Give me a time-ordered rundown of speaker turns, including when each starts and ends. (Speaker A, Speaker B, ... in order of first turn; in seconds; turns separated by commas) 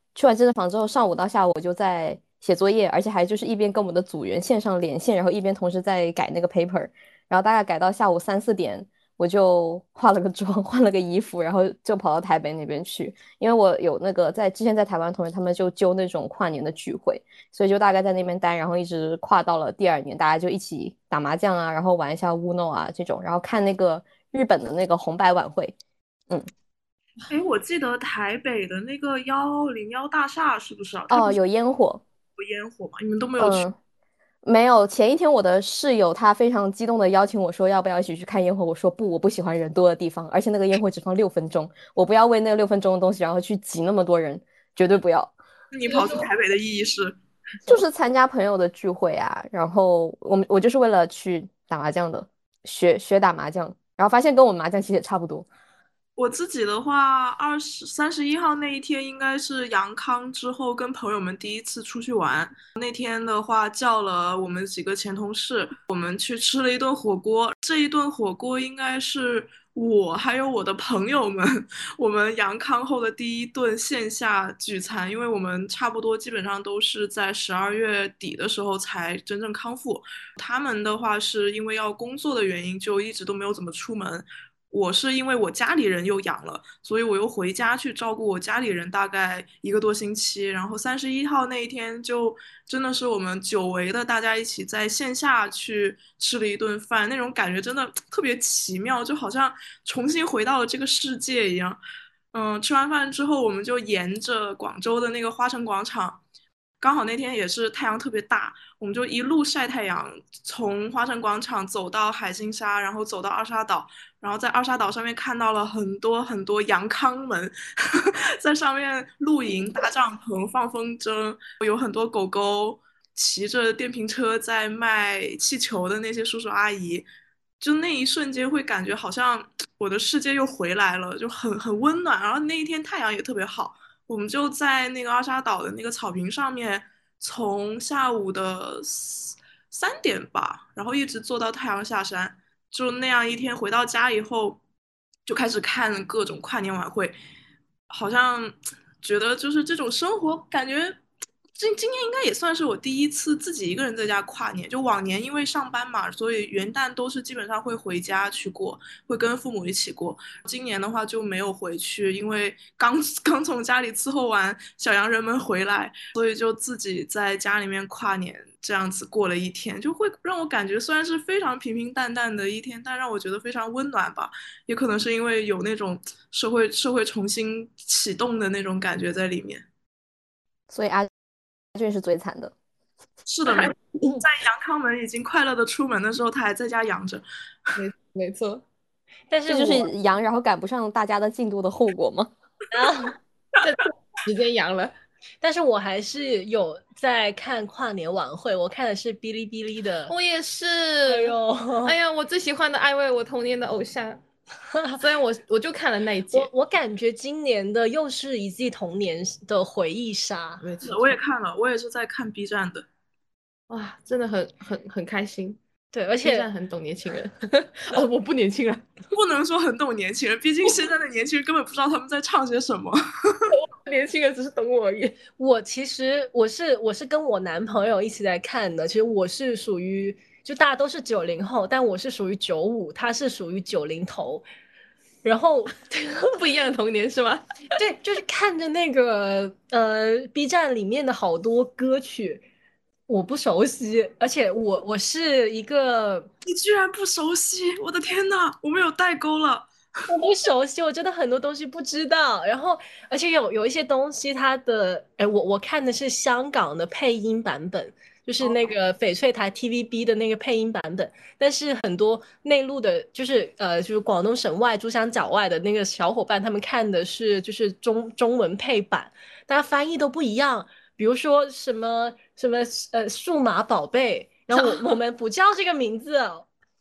Speaker A: 0.1-25.8, Speaker B: 27.3-31.4, Speaker A: 31.1-32.0, Speaker B: 32.4-33.7, Speaker A: 33.4-33.7, Speaker A: 34.4-45.3, Speaker B: 45.7-47.2, Speaker C: 45.9-46.2, Speaker A: 47.7-55.5, Speaker B: 56.2-101.8, Speaker B: 102.3-106.2, Speaker B: 106.8-127.1, Speaker B: 127.6-144.6, Speaker B: 145.3-147.1, Speaker B: 147.9-151.0, Speaker B: 151.6-179.6, Speaker A: 180.7-181.1, Speaker A: 181.7-182.5, Speaker B: 183.3-187.8, Speaker C: 183.5-184.2, Speaker C: 187.8-188.6, Speaker D: 189.3-189.9, Speaker A: 189.5-192.3, Speaker D: 192.7-193.2, Speaker C: 193.6-194.9, Speaker D: 195.4-200.1, Speaker C: 200.1-204.2, Speaker D: 201.1-201.9, Speaker D: 204.7-205.0, Speaker C: 205.0-206.5, Speaker D: 206.3-210.6, Speaker C: 210.6-211.2, Speaker B: 210.8-212.8, Speaker C: 213.7-215.6, Speaker D: 215.9-216.5, Speaker C: 216.2-218.9, Speaker B: 219.1-223.5, Speaker C: 223.5-225.2, Speaker D: 225.4-234.4, Speaker D: 235.2-236.3, Speaker C: 236.3-237.4, Speaker D: 237.7-242.4, Speaker D: 243.1-246.3, Speaker B: 246.4-249.7, Speaker D: 250.1-276.5